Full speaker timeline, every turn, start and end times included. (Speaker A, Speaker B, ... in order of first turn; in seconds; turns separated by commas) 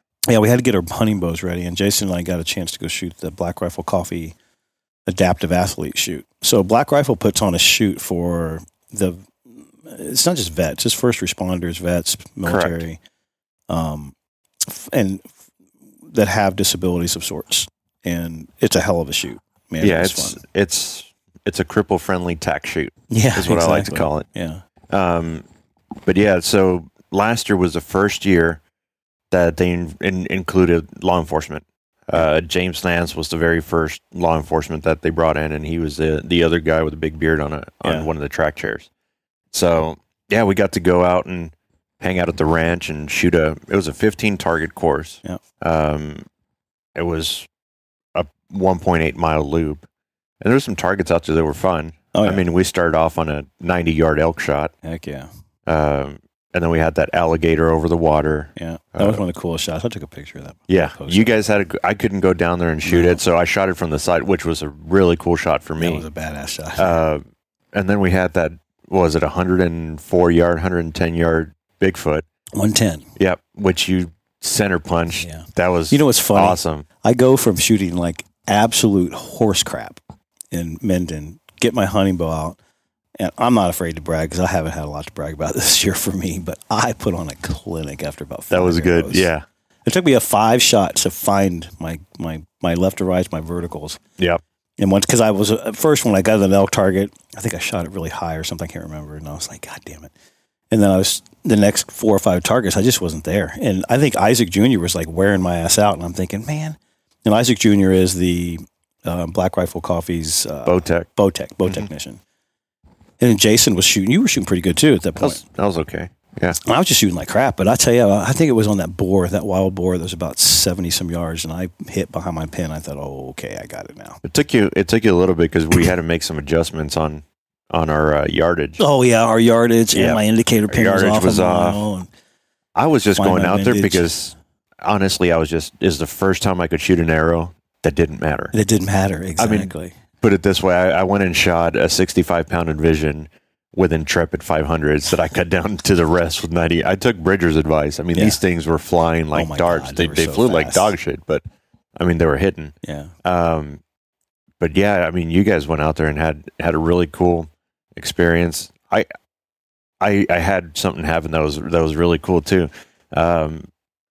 Speaker A: 0.3-4.3, Speaker A: 5.0-13.0, Speaker B: 12.4-12.8, Speaker A: 13.7-15.3, Speaker A: 16.0-20.4, Speaker B: 19.8-24.3, Speaker A: 23.1-24.6, Speaker B: 24.9-25.4, Speaker B: 26.0-28.6, Speaker B: 29.3-38.9, Speaker A: 37.8-38.1, Speaker B: 39.5-46.2, Speaker B: 46.9-47.5, Speaker B: 48.1-49.8, Speaker B: 50.4-54.7, Speaker A: 52.1-52.4, Speaker A: 54.8-55.3, Speaker B: 55.7-59.2, Speaker A: 58.5-61.5, Speaker B: 60.7-66.0, Speaker A: 62.8-63.2, Speaker A: 65.8-67.0, Speaker B: 66.8-72.2, Speaker A: 72.5-73.1, Speaker B: 73.2-76.8, Speaker A: 75.1-80.0, Speaker A: 80.5-82.6, Speaker A: 83.2-89.3, Speaker B: 88.5-89.4, Speaker A: 89.8-94.0, Speaker A: 94.8-100.1, Speaker A: 100.7-112.2, Speaker B: 110.7-111.1, Speaker A: 113.2-115.4, Speaker B: 115.2-116.6, Speaker A: 116.6-124.2, Speaker B: 124.2-128.8, Speaker A: 128.8-132.1, Speaker B: 129.9-131.8, Speaker B: 132.7-138.5, Speaker A: 133.2-134.1, Speaker A: 138.5-139.9, Speaker B: 139.4-151.4, Speaker A: 148.1-148.4, Speaker A: 149.3-150.9, Speaker B: 152.0-153.8, Speaker A: 152.8-153.1, Speaker B: 154.6-159.1, Speaker B: 160.0-163.7